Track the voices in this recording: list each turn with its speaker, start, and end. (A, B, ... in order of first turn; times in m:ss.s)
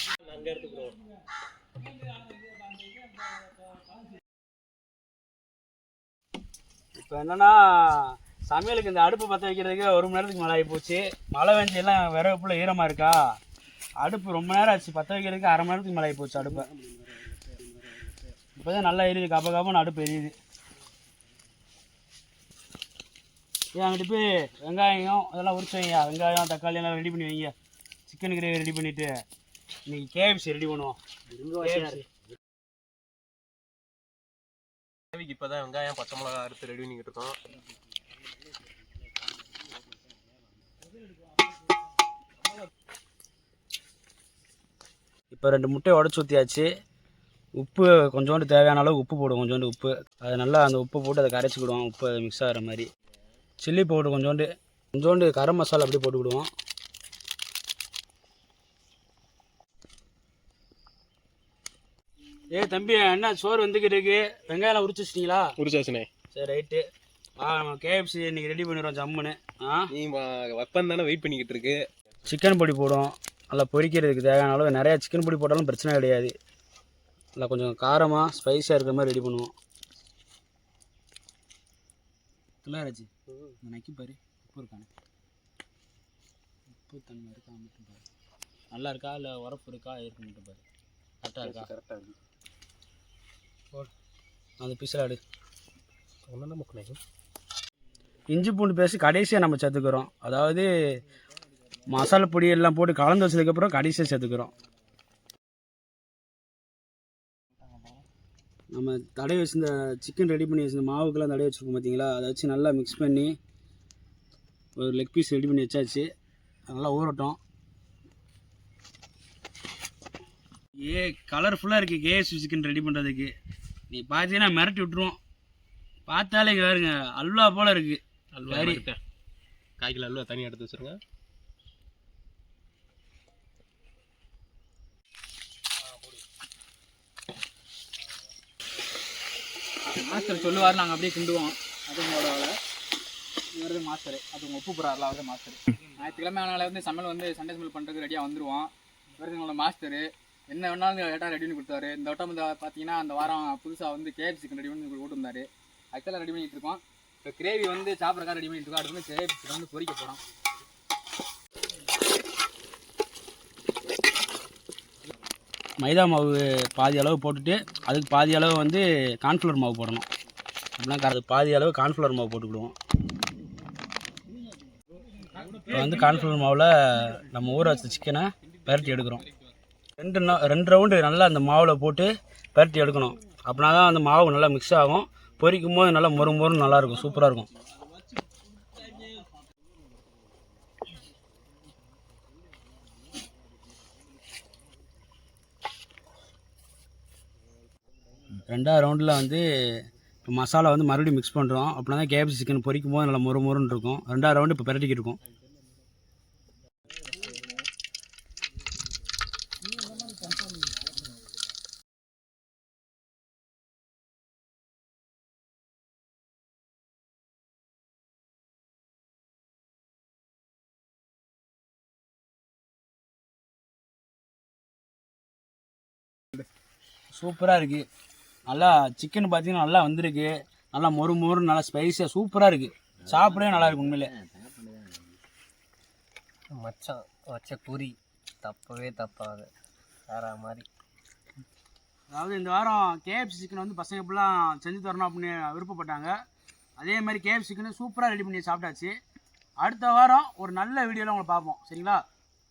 0:00.2-0:01.0 A
0:07.0-0:13.3 B
0:14.0-0:16.7 B
0:18.6-0:20.3 B
0:23.7-0:27.5 B
0:28.1-0:29.2 B
0:29.9-0:31.0 B
0:31.6-0:32.0 B
0:35.1-0:37.4 A
0:45.3-0:46.7 B
0:47.6-0:52.9 B
0:53.6-0:56.5 B
1:02.5-1:05.5 B
1:05.6-1:06.1 A
1:06.3-1:06.9 B
1:07.4-1:09.9 B
1:09.9-1:11.8 A
1:12.3-1:16.3 B
1:17.4-1:19.5 B
1:22.6-1:23.1 B
1:23.6-1:24.9 B
1:26.7-1:28.0 B
1:28.7-1:30.6 B
1:31.2-1:31.7 B
1:31.4-1:32.1 A
1:34.6-1:35.2 B
1:36.3-1:37.0 A
1:38.3-1:40.7 B
1:41.9-1:44.5 B
1:48.7-1:53.3 B
1:54.8-1:56.1 B
1:56.7-1:57.4 B
2:00.8-2:03.3 B
2:03.9-2:05.2 B
2:06.1-2:08.8 B
2:08.4-2:09.0 A
2:09.8-2:11.0 A
2:19.9-2:22.5 C
2:23.5-2:40.2 C
2:45.8-2:50.0 B
2:50.8-2:52.7 B
2:55.7-2:59.2 B
3:00.0-3:07.5 B
3:18.4-3:19.4 B
3:20.2-3:25.2 B
3:47.1-3:47.8 B
3:48.5-3:54.1 B
3:53.0-3:55.2 D
3:56.5-3:59.5 D
4:00.1-4:00.7 D
4:02.1-4:06.1 B
4:06.8-4:08.9 B
4:09.6-4:12.0 B